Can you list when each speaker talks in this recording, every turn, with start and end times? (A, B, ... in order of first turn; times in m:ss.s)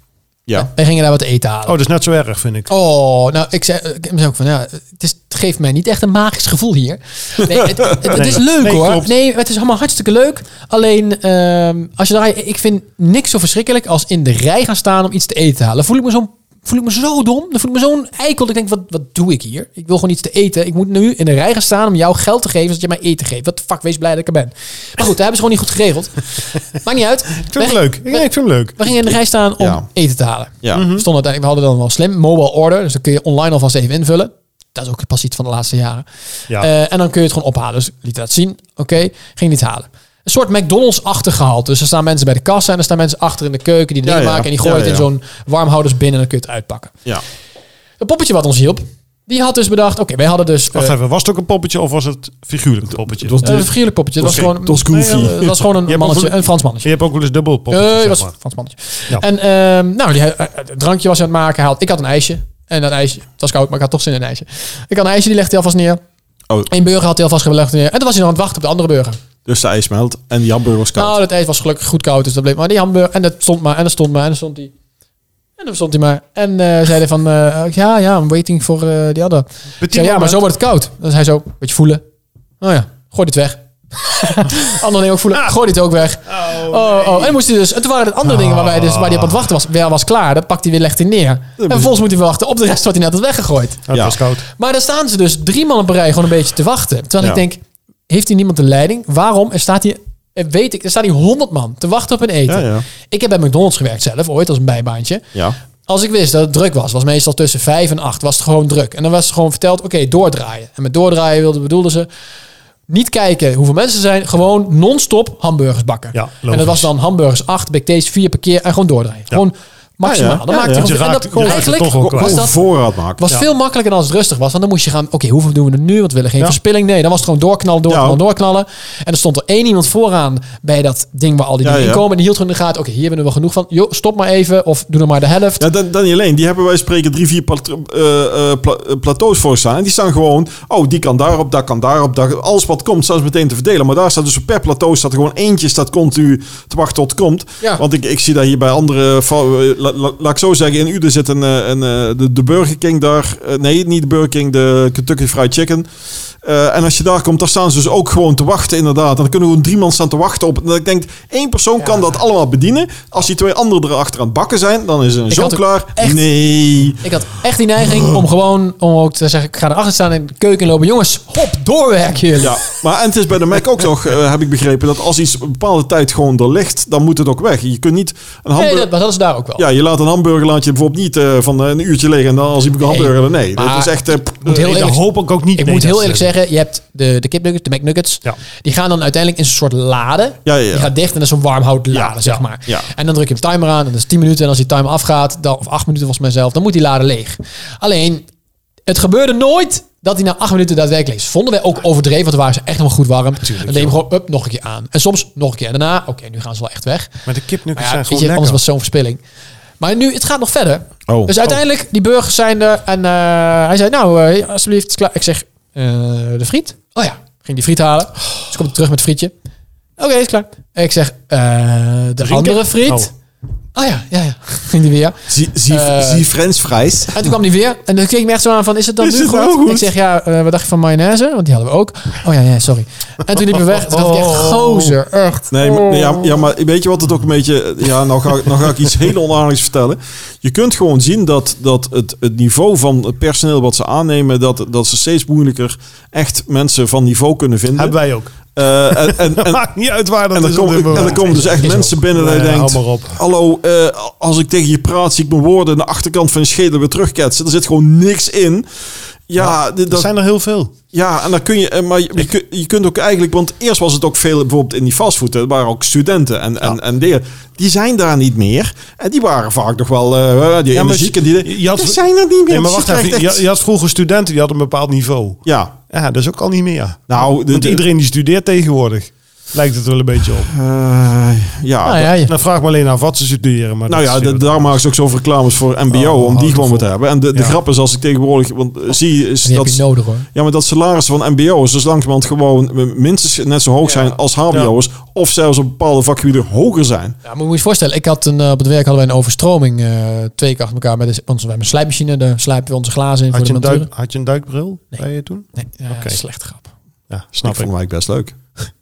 0:00.5-0:01.8 A
0:01.6-0:02.7 B
0:02.7-0:46.9 A
0:08.1-0:09.1 B
0:27.4-0:28.9 B
0:29.6-0:29.8 C
0:30.6-0:30.9 C
0:30.7-0:31.0 B
0:44.0-0:45.0 C
0:48.0-0:50.9 A
0:50.7-0:53.5 B
0:53.1-0:55.6 C
0:53.4-0:56.9 A
0:54.3-0:58.3 B
0:57.7-1:06.0 A
1:06.7-1:09.2 A
1:09.4-1:11.1 C
1:11.0-1:14.7 A
1:15.6-1:22.0 A
1:19.8-1:20.4 B
1:22.6-1:33.8 A
1:26.3-1:27.4 B
1:28.2-1:29.4 B
1:31.6-1:31.9 C
1:33.9-1:34.4 B
1:33.9-1:34.2 C
1:34.4-1:45.3 A
1:42.5-1:42.8 C
1:45.8-1:52.1 A
1:52.9-2:02.6 A
1:56.1-1:56.9 B
2:00.0-2:03.3 C
2:00.6-2:02.4 B
2:03.2-2:15.6 A
2:07.9-2:08.2 C
2:11.6-2:12.0 C
2:15.6-2:35.9 C
2:36.4-2:47.0 C
2:45.3-2:46.3 A
2:47.0-2:52.6 A
2:52.4-2:58.9 C
2:58.5-2:59.6 A
2:59.6-3:04.7 C
3:02.8-3:05.0 A
3:04.5-3:06.3 B
3:05.5-3:18.2 A
3:10.4-3:10.9 C
3:11.9-3:12.8 C
3:18.9-3:27.1 A
3:23.4-3:24.0 B
3:27.2-3:28.6 B
3:27.7-3:29.2 A
3:29.8-3:39.3 A
3:31.1-3:31.3 C
3:40.0-3:43.1 A
3:42.2-3:43.1 B
3:43.8-3:46.3 A
3:45.3-3:47.3 C
3:47.1-3:56.2 A
3:49.0-3:49.9 C
3:53.8-3:54.9 B
3:55.5-4:08.0 C
4:07.8-4:08.3 B
4:08.6-4:09.7 C
4:08.9-4:13.2 B
4:10.3-4:18.7 C
4:19.3-4:20.1 C
4:19.4-4:20.7 B
4:20.9-4:33.4 C
4:30.7-4:40.5 B
4:35.4-4:35.7 C
4:37.1-4:37.8 C
4:40.5-4:42.1 C
4:41.8-4:42.3 A
4:42.3-4:44.8 B
4:43.9-4:49.8 C
4:45.9-4:47.6 B
4:49.4-4:50.3 A
4:50.3-4:57.2 C
4:53.8-4:54.1 A
4:57.2-5:03.9 A
5:03.3-5:06.2 B
5:05.6-5:06.7 A
5:07.1-5:07.7 B
5:07.4-5:08.4 C